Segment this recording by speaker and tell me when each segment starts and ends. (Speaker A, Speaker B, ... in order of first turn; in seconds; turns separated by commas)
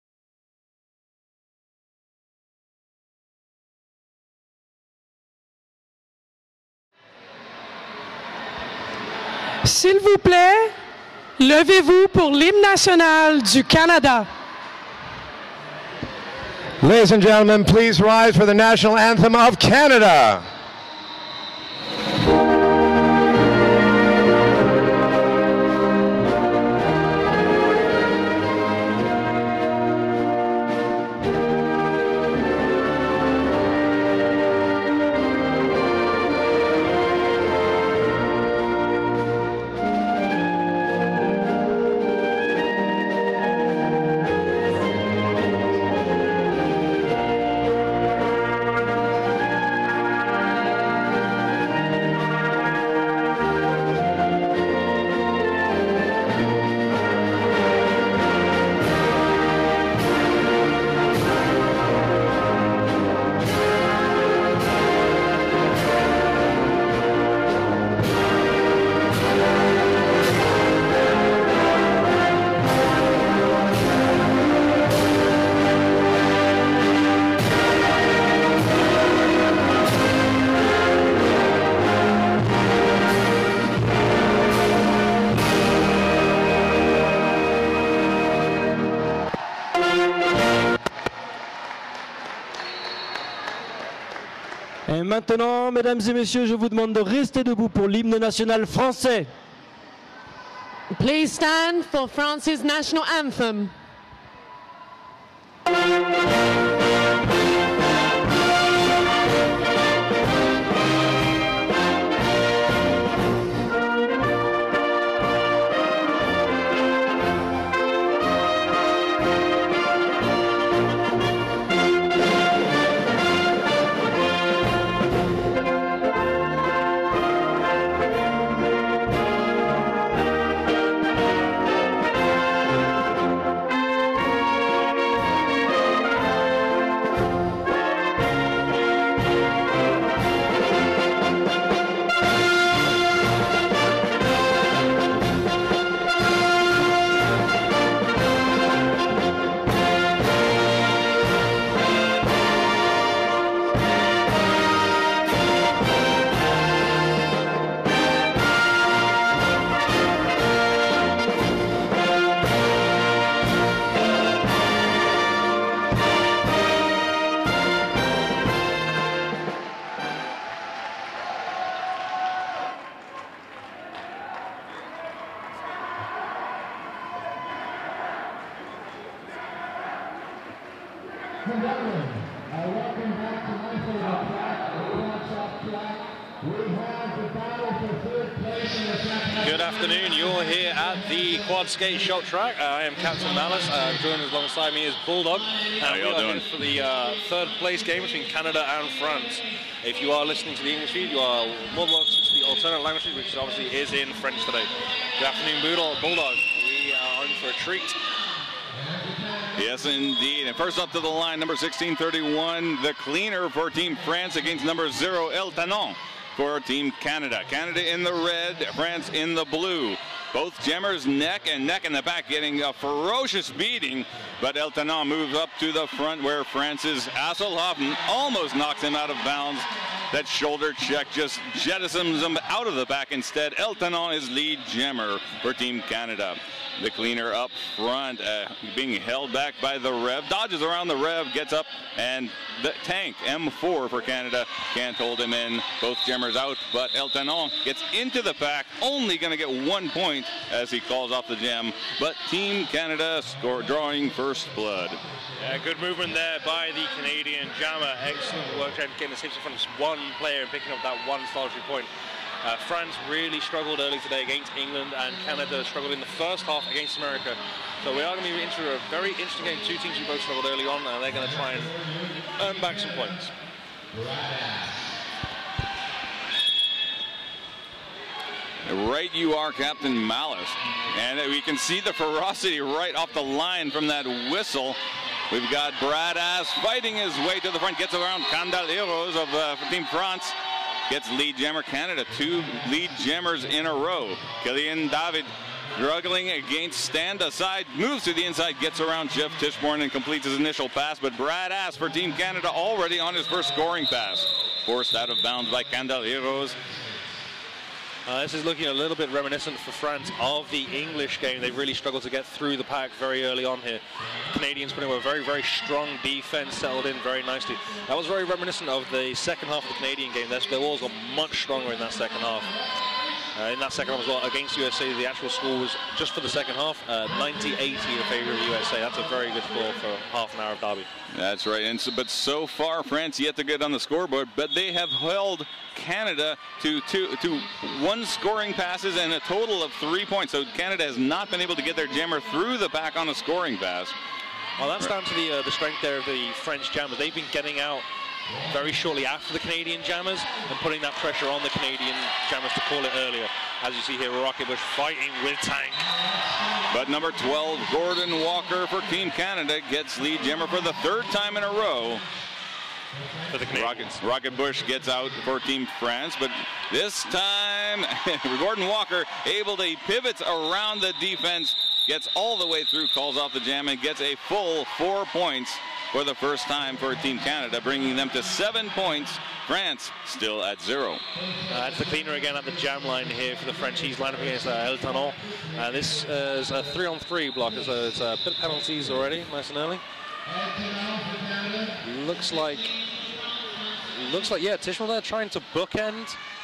Speaker A: 9.6-10.7, Speaker A: 11.4-14.3, Speaker B: 16.8-20.5, Speaker C: 94.9-99.3, Speaker D: 100.9-103.7, Speaker E: 189.3-208.0, Speaker F: 195.8-196.4, Speaker F: 209.6-255.0, Speaker E: 255.4-261.9, Speaker E: 262.4-271.7, Speaker E: 272.4-273.3, Speaker F: 278.7-284.8, Speaker F: 285.3-290.4, Speaker F: 290.9-306.6, Speaker E: 308.1-322.5, Speaker E: 323.4-330.9, Speaker F: 331.1-344.0, Speaker E: 344.6-347.9, Speaker E: 348.5-355.9, Speaker F: 356.7-362.0, Speaker E: 363.3-364.0, Speaker F: 363.5-381.0, Speaker E: 381.5-389.8, Speaker E: 391.8-392.8, Speaker E: 393.9-396.2